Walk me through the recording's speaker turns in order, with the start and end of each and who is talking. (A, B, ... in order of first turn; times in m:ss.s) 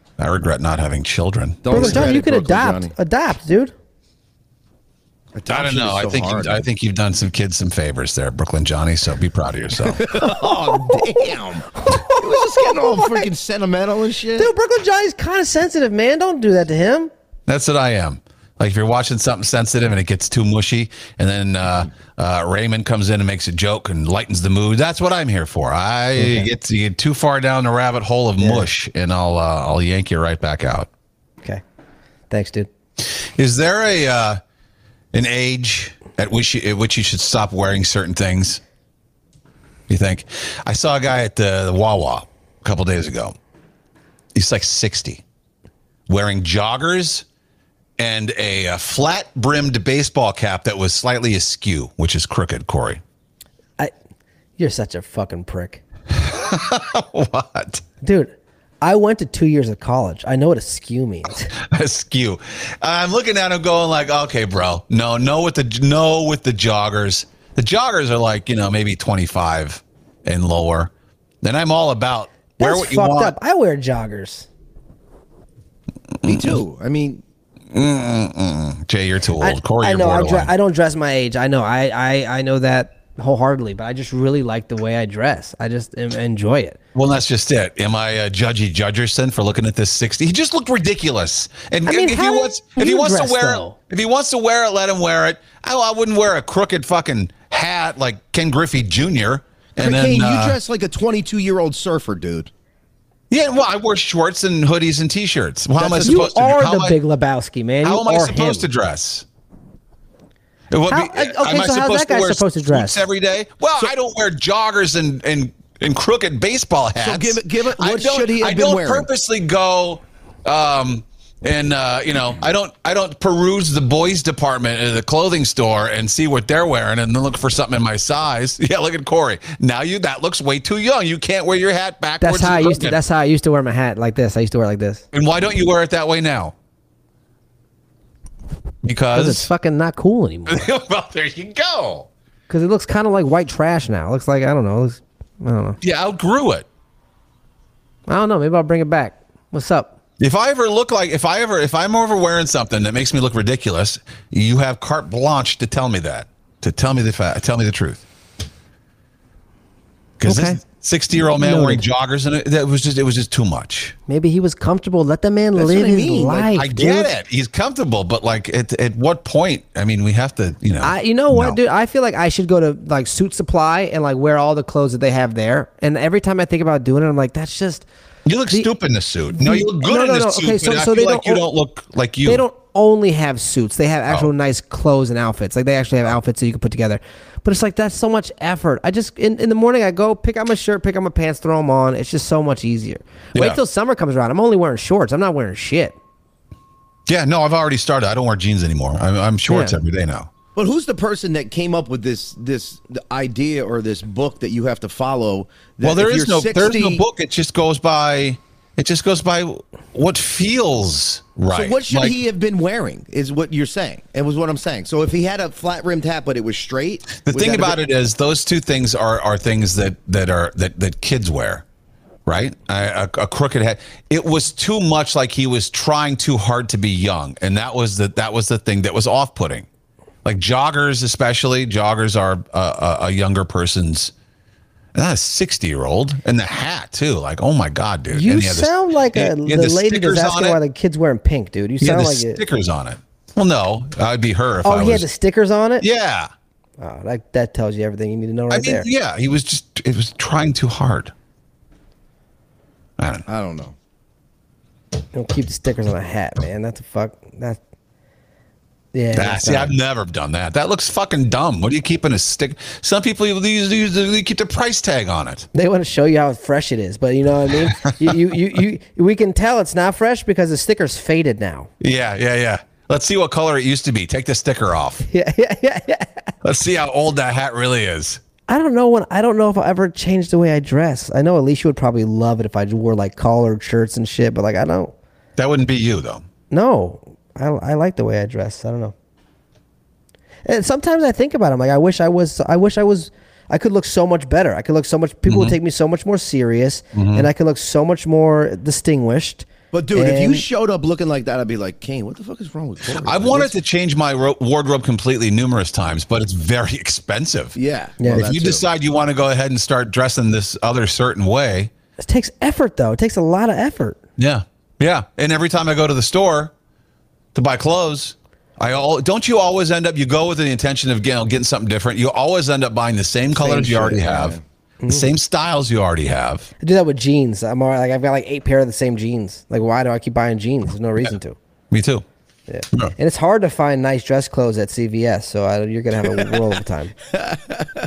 0:00.2-0:02.1 A
0:01.6-0:02.9 B
0:01.7-0:03.7 C
0:05.4-0:06.6 B
0:05.5-0:10.2 A
0:09.9-0:14.5 B
0:10.7-0:11.2 C
0:11.8-0:13.2 C
0:14.4-0:17.1 C
0:17.5-0:30.9 A
0:26.2-0:26.5 C
0:28.4-0:28.7 C
0:32.3-0:32.7 C
0:33.0-0:34.4 A
0:35.1-0:38.6 A
0:39.9-0:43.4 A
0:44.4-0:45.2 A
0:46.1-0:47.2 A
0:48.0-0:53.0 A
0:54.6-0:55.8 C
0:56.1-0:57.8 A
0:58.0-1:01.5 C
1:01.5-1:10.9 A
1:11.4-1:13.4 A
1:12.6-1:14.5 C
1:16.2-1:16.6 A
1:16.2-1:17.2 B
1:17.7-1:20.5 A
1:19.4-1:26.8 C
1:27.0-1:40.6 A
1:31.9-1:33.8 C
1:39.8-1:42.5 B
1:43.3-1:47.0 A
1:45.8-1:46.2 B
1:46.0-1:48.7 C
1:47.8-1:49.3 A
1:50.7-2:13.0 A
1:50.9-1:53.0 C
1:57.0-1:59.1 B
2:12.2-2:15.0 C
2:15.1-2:16.5 A
2:18.8-2:19.5 A
2:19.1-2:20.7 C
2:20.5-2:22.1 A
2:22.5-2:25.8 C
2:25.8-2:26.7 A
2:28.1-2:29.9 C
2:30.2-2:38.0 A
2:40.2-2:44.0 A
2:40.2-2:40.6 C
2:41.4-2:41.8 C
2:44.1-2:47.1 C
2:45.6-2:46.5 B
2:46.5-2:51.6 A
2:50.8-2:57.9 C
2:58.2-3:02.4 A
2:59.4-3:01.4 C
3:02.2-3:16.0 C
3:17.1-3:20.3 A
3:19.5-3:19.8 C
3:20.6-3:27.0 B
3:25.8-3:32.2 A
3:31.5-3:37.8 B
3:37.2-3:41.6 A
3:42.3-3:49.7 A
3:50.2-3:54.1 A
3:55.0-4:00.6 A
3:58.1-4:02.4 C
4:01.8-4:05.1 A
4:04.6-4:05.9 C
4:05.8-4:06.3 A
4:06.8-4:08.9 C
4:08.5-4:11.1 A
4:13.0-4:13.3 A
4:13.3-4:13.8 B
4:15.1-4:17.6 C
4:18.9-4:19.7 C
4:19.1-4:25.5 A
4:25.5-4:31.7 C
4:27.6-4:28.1 A
4:31.8-4:35.1 A
4:35.1-4:36.2 C
4:36.4-4:38.2 A
4:38.5-4:44.9 C
4:45.4-4:46.2 A
4:46.5-4:48.9 C
4:50.4-5:00.4 C
4:55.3-4:55.6 A
4:57.0-4:57.3 A
4:59.7-5:03.5 B
5:03.0-5:07.6 A
5:07.6-5:08.6 B
5:08.0-5:08.3 C
5:08.1-5:11.7 A
5:12.0-5:14.0 C
5:14.2-5:16.5 A
5:17.3-5:24.4 A
5:23.3-5:24.4 B
5:24.8-5:25.1 C
5:24.9-5:26.5 A
5:26.6-5:31.4 C
5:31.7-5:32.0 A
5:32.5-5:37.0 C
5:37.2-5:37.8 B